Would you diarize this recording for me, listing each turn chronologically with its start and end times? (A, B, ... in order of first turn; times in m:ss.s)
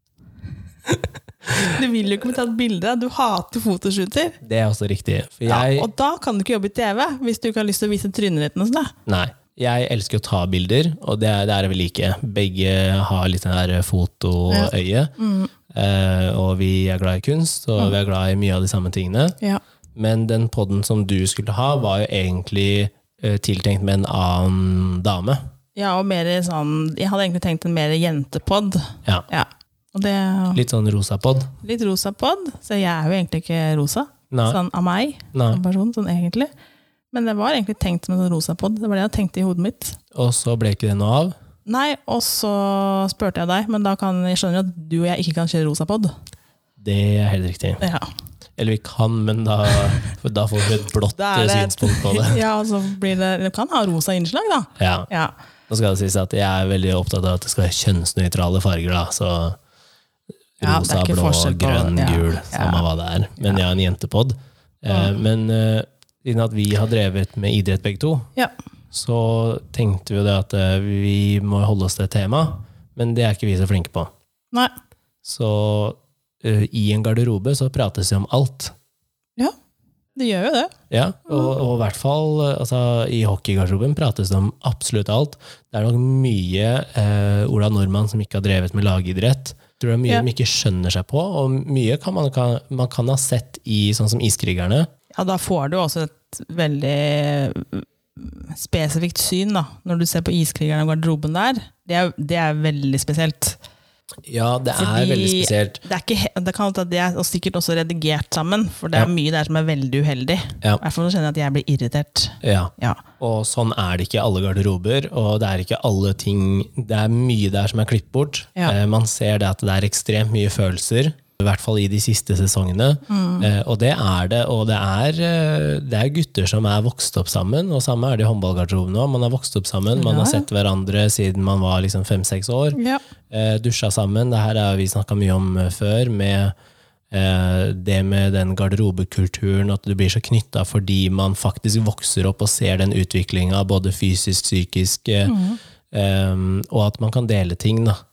0:01.6-0:04.4 A
0:04.4-0:05.9 B
0:05.5-0:08.9 A
0:09.1-0:15.1 B
0:14.5-0:15.5 A
0:15.7-0:19.4 B
0:20.0-0:25.4 B
0:25.8-0:30.6 A
0:30.5-0:31.5 B
0:31.6-0:36.5 A
0:34.3-0:34.6 B
0:35.3-0:35.6 B
0:37.1-0:40.0 A
0:40.1-0:41.3 B
0:41.7-0:46.1 A
0:46.8-0:47.8 B
0:47.8-0:48.1 A
0:48.6-0:52.4 B
0:51.2-0:55.3 A
0:54.8-0:55.1 B
0:55.7-0:59.6 B
1:00.6-1:08.3 B
1:00.6-1:02.8 A
1:08.9-1:14.1 B
1:15.2-1:18.7 B
1:20.2-1:20.7 A
1:20.9-1:34.9 B
1:35.1-1:43.6 A
1:44.3-1:45.8 B
1:44.7-1:53.0 A
1:52.4-2:12.8 B
2:03.1-2:03.5 A
2:10.0-2:10.5 A
2:12.8-2:13.0 A
2:13.3-2:16.5 B
2:17.1-2:25.4 B
2:25.3-2:25.6 A
2:25.9-2:28.0 B